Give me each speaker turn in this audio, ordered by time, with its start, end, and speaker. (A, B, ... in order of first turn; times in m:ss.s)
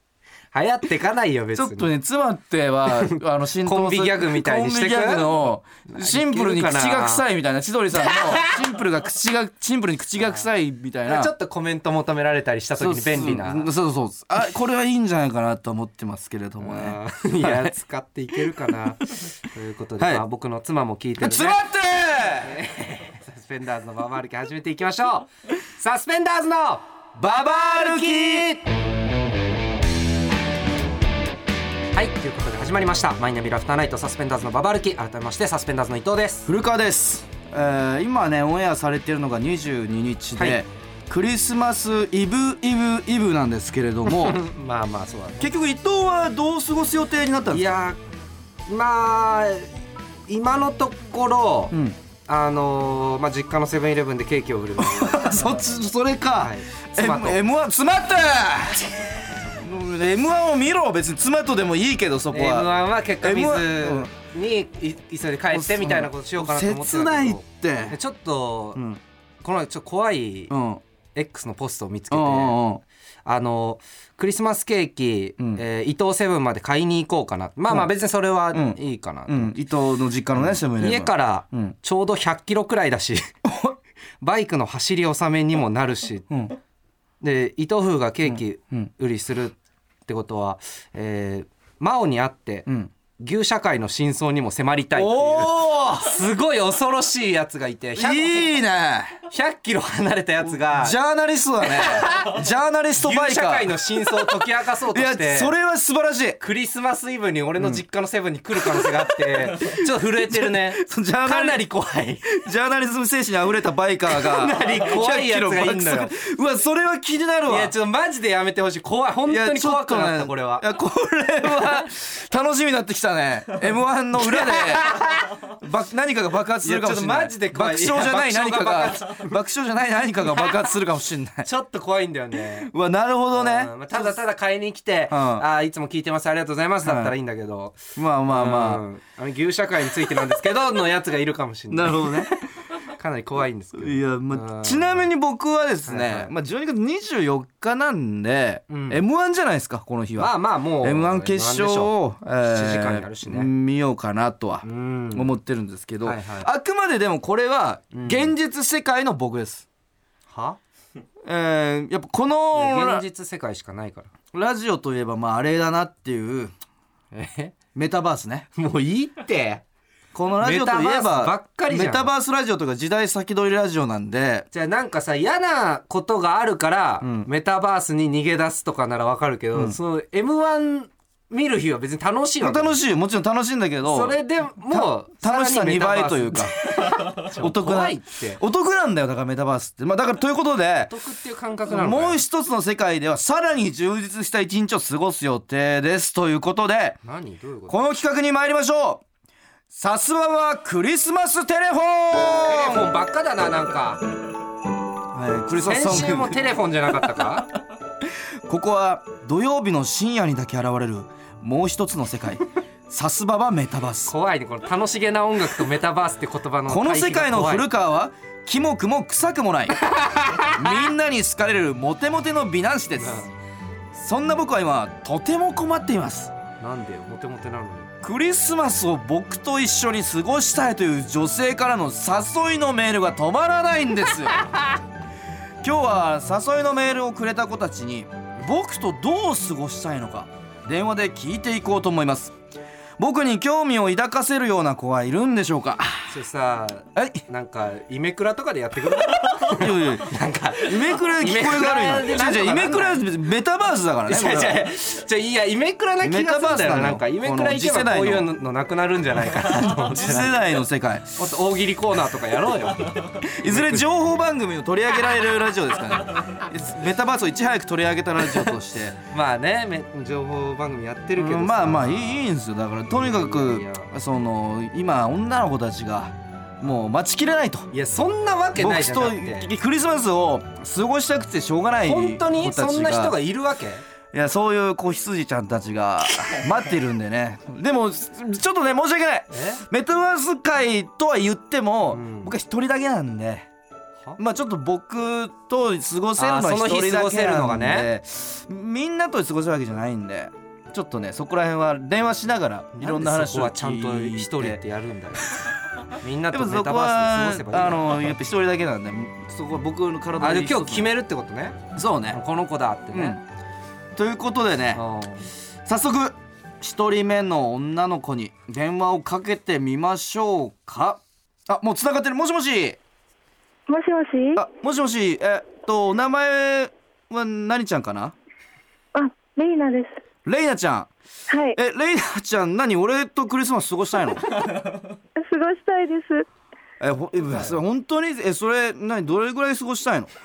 0:00.5-0:01.9 A
0:01.6-0:11.3 B
0:02.9-0:07.2 A
0:08.0-0:08.6 A
0:10.2-0:10.5 A
0:11.1-0:13.7 A
0:12.8-0:17.7 B
0:16.6-0:21.6 A
0:21.2-0:22.6 B
0:22.4-0:28.7 A
0:27.5-0:28.5 B
0:31.9-0:36.5 A
0:36.5-0:44.4 B
0:44.1-0:45.5 A
0:45.4-0:47.7 B
0:47.5-0:48.0 A
0:48.7-0:49.7 A
0:50.3-0:51.7 A
0:51.7-0:52.0 B
0:52.3-0:55.6 A
0:54.8-1:02.7 B
0:56.4-0:57.4 A
1:02.3-1:08.8 A
1:03.2-1:04.1 B
1:05.5-1:08.0 B
1:08.8-1:09.0 B
1:09.4-1:10.5 A
1:10.5-1:10.8 B
1:11.2-1:12.6 A
1:12.1-1:12.8 B
1:13.2-1:19.6 A
1:18.5-1:21.7 B
1:20.4-1:23.2 A
1:23.5-1:23.7 B
1:24.2-1:26.3 A
1:26.3-1:26.6 B
1:27.2-1:32.7 A
1:28.3-1:28.9 B
1:33.2-1:38.5 A
1:35.0-1:36.1 B
1:38.0-1:39.2 B
1:39.3-1:41.0 A
1:40.6-1:44.3 B
1:41.6-1:42.5 A
1:43.0-1:45.5 A
1:44.9-1:46.4 B
1:46.4-1:52.3 A
1:48.6-1:51.6 B
1:52.3-1:57.7 B
1:54.1-1:56.1 A
1:57.5-2:00.7 A
1:59.3-2:05.0 B
2:04.2-2:05.5 A
2:05.6-2:11.5 B
2:06.6-2:09.3 A
2:10.4-2:10.6 A
2:11.4-2:12.7 A
2:12.6-2:14.2 B
2:13.3-2:25.1 A
2:15.1-2:15.4 B
2:16.8-2:17.2 B
2:18.0-2:18.8 B
2:21.7-2:22.4 B
2:23.8-2:39.7 B
2:25.9-2:26.3 A
2:28.7-2:29.0 A
2:30.2-2:33.5 A
2:34.6-2:35.3 A
2:36.0-2:36.5 A
2:37.9-2:38.3 A
2:40.3-2:40.6 A
2:41.3-2:43.0 B
2:42.5-2:44.1 A
2:44.3-2:46.5 B
2:47.1-2:47.6 A
2:47.7-2:48.5 B
2:48.6-2:49.6 A
2:50.1-2:54.5 B
2:50.4-2:52.1 A
2:54.5-3:02.8 A
2:57.0-2:57.3 B
3:02.4-3:04.2 B
3:03.8-3:08.4 A
3:04.7-3:11.0 B
3:10.9-3:12.2 A
3:11.7-3:17.0 B
3:17.0-3:17.8 A
3:17.7-3:19.0 B
3:19.7-3:22.9 B
3:22.3-3:24.0 A
3:25.1-3:26.4 B
3:25.6-3:27.5 A
3:28.5-3:34.1 B
3:34.1-3:37.7 A
3:36.7-3:39.8 B
3:39.8-3:40.9 A
3:40.5-3:43.2 B
3:43.0-3:43.3 A
3:43.9-3:46.3 B
3:46.6-3:47.9 A
3:48.0-3:54.5 B
3:55.6-4:02.4 B
4:03.0-4:06.1 B
4:06.1-4:13.0 A
4:07.0-4:07.2 B
4:09.5-4:14.7 B
4:14.1-4:20.3 A
4:16.0-4:18.3 B
4:19.7-4:21.2 B
4:21.2-4:23.9 A
4:23.2-4:29.0 B
4:29.1-4:32.3 A
4:31.2-4:37.7 B
4:32.9-4:33.9 A
4:37.7-4:39.5 A
4:38.6-4:43.2 B
4:41.9-4:43.8 A
4:44.1-4:53.5 B
4:49.3-4:49.6 A
4:51.9-4:52.3 A
4:54.2-5:04.6 B
4:56.2-4:57.9 A
5:02.8-5:08.2 A
5:06.3-5:10.9 B
5:10.2-5:13.2 A
5:11.8-5:12.2 B
5:12.9-5:13.2 B
5:14.0-5:14.8 B
5:14.8-5:15.3 A
5:15.7-5:22.8 B
5:23.7-5:24.4 C
5:24.4-5:28.2 B
5:29.0-5:30.0 C
5:30.2-5:30.9 B
5:31.3-5:31.6 C
5:31.6-5:34.2 B
5:35.2-5:36.3 C
5:36.8-5:40.1 B